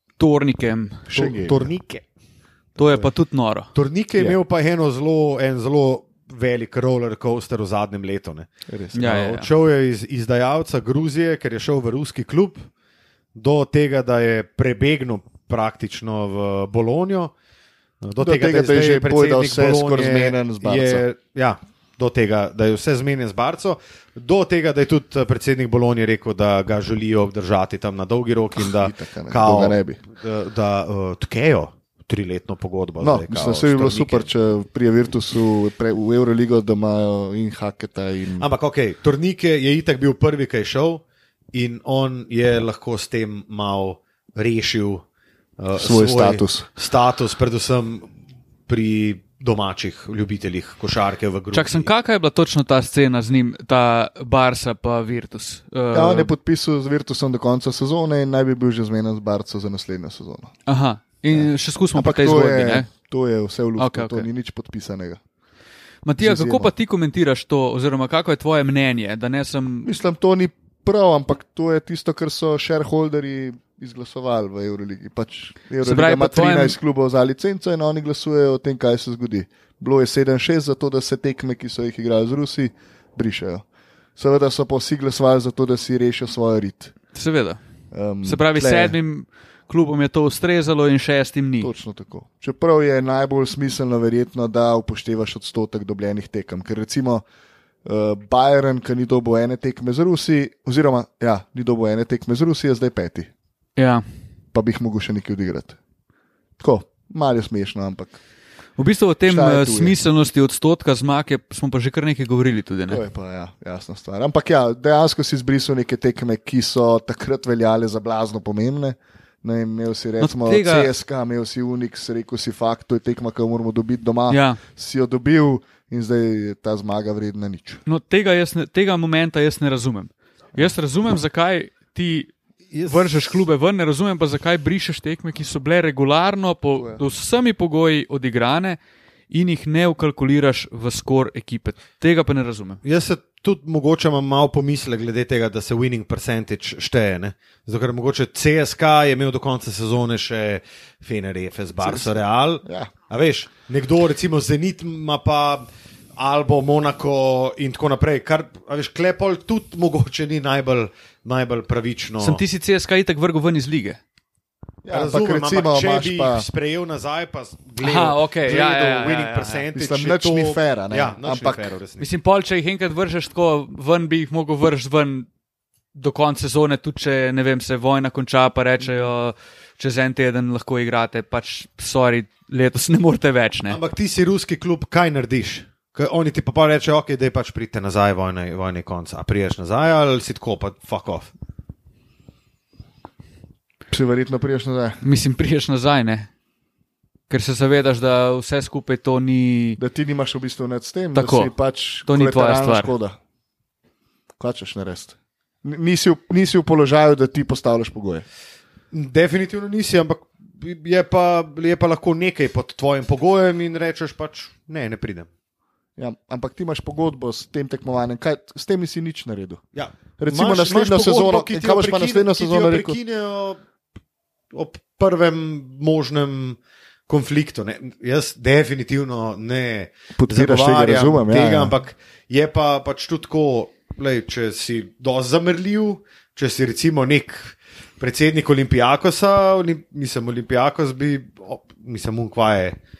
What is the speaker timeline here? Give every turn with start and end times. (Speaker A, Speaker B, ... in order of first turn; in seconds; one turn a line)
Speaker A: 0.2-1.0
Speaker B: 1.1-1.7
Speaker C: 1.1-2.0
Speaker A: 2.8-4.3
Speaker C: 2.8-3.1
Speaker C: 3.7-12.6
Speaker B: 8.7-9.0
Speaker A: 8.9-9.5
Speaker C: 13.3-17.3
Speaker C: 18.0-34.3
Speaker B: 18.2-21.0
Speaker B: 28.6-30.0
Speaker B: 33.0-38.5
Speaker C: 38.4-45.0
Speaker C: 45.6-48.1
Speaker B: 45.8-46.6
Speaker C: 48.7-51.9
Speaker A: 51.5-56.3
Speaker B: 55.9-60.5
Speaker A: 60.7-62.9
Speaker B: 61.3-65.2
Speaker A: 63.8-64.3
Speaker A: 66.0-69.9
Speaker B: 66.2-66.7
Speaker B: 69.8-86.9
Speaker A: 75.8-76.8
Speaker A: 87.1-87.6
Speaker B: 87.9-89.0
Speaker A: 88.2-91.7
Speaker B: 91.6-97.2
Speaker B: 97.8-103.3
Speaker A: 103.8-104.0
Speaker B: 104.5-105.8
Speaker B: 106.6-108.2
Speaker A: 108.8-113.0
Speaker B: 109.3-110.0
Speaker B: 112.9-127.8
Speaker A: 120.2-120.9
Speaker A: 124.3-124.6
Speaker A: 127.8-132.3
Speaker C: 132.7-133.3
Speaker A: 132.8-142.8
Speaker C: 142.8-162.4
Speaker B: 151.8-152.9
Speaker A: 162.2-164.0
Speaker B: 164.8-166.4
Speaker C: 164.9-172.1
Speaker A: 167.8-169.6
Speaker B: 169.7-171.7
Speaker A: 172.0-175.3
Speaker A: 175.9-183.8
Speaker C: 183.7-191.3
Speaker B: 193.9-195.0
Speaker A: 195.0-196.3
Speaker A: 197.3-199.8
Speaker B: 199.8-203.2
Speaker A: 201.1-201.5
Speaker A: 202.1-202.9
Speaker B: 204.4-208.2
Speaker C: 208.9-215.3
Speaker B: 216.0-219.6
Speaker C: 219.7-223.6
Speaker B: 220.2-223.0
Speaker C: 224.5-242.8
Speaker B: 230.2-231.7